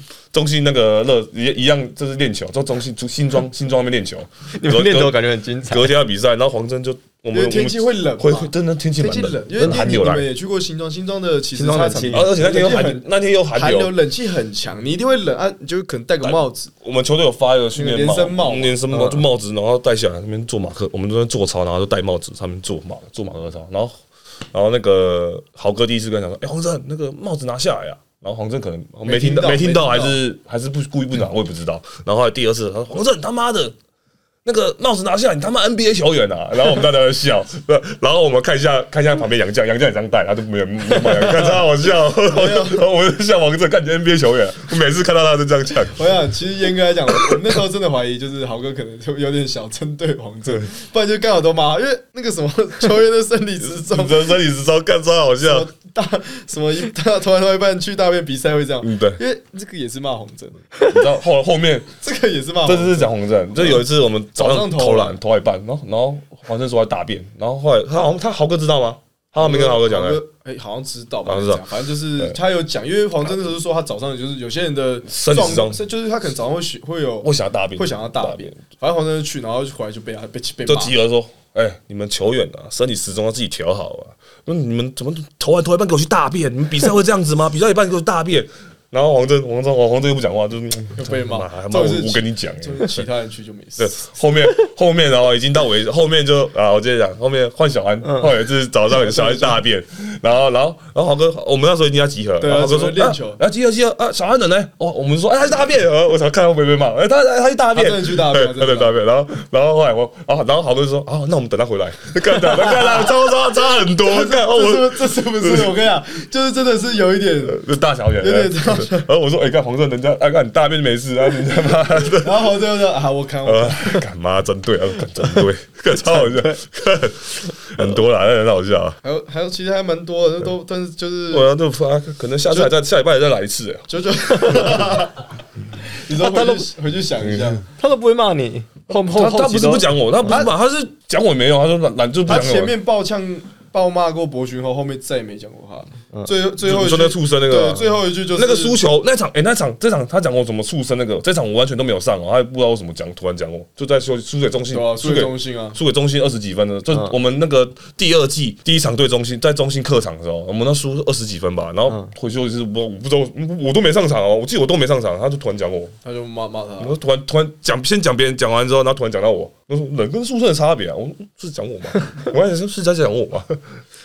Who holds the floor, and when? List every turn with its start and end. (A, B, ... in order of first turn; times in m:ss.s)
0:00.3-0:10.2 A
0:04.5-0:06.0 B
0:07.3-0:16.7 C
0:11.5-0:12.3 B
0:12.1-0:14.0 A
0:16.2-0:24.0 A
0:17.8-0:19.1 C
0:18.9-0:19.2 B
0:24.5-0:33.8 A
0:29.0-0:30.2 C
0:34.4-0:46.1 A
0:42.2-0:42.8 C
0:45.9-0:54.4 C
0:53.7-0:55.7 A
0:55.4-1:00.6 C
0:58.8-0:59.2 A
1:00.8-1:01.9 A
1:02.0-1:05.2 C
1:02.6-1:10.2 A
1:09.4-1:21.0 C
1:11.3-1:12.4 A
1:15.1-1:15.8 A
1:17.2-1:18.6 A
1:20.7-1:33.0 A
1:30.9-1:34.1 C
1:33.8-1:55.8 A
1:38.9-1:39.6 C
1:42.4-1:43.4 C
1:47.7-1:48.9 C
1:52.5-1:53.2 C
1:54.0-1:57.6 C
1:57.4-2:02.6 A
1:58.2-1:59.1 C
2:01.6-2:04.0 C
2:03.4-2:09.0 A
2:06.2-2:06.5 B
2:09.0-2:11.5 C
2:11.3-2:13.9 A
2:12.5-2:12.7 C
2:13.9-2:17.6 C
2:14.5-2:14.9 A
2:16.1-2:16.7 B
2:17.2-2:17.6 A
2:17.8-2:20.4 B
2:19.0-2:22.8 A
2:20.2-2:20.5 C
2:22.2-2:28.8 C
2:26.6-2:46.0 A
2:34.7-2:35.8 C
2:46.0-2:47.0 C
2:46.8-2:53.8 A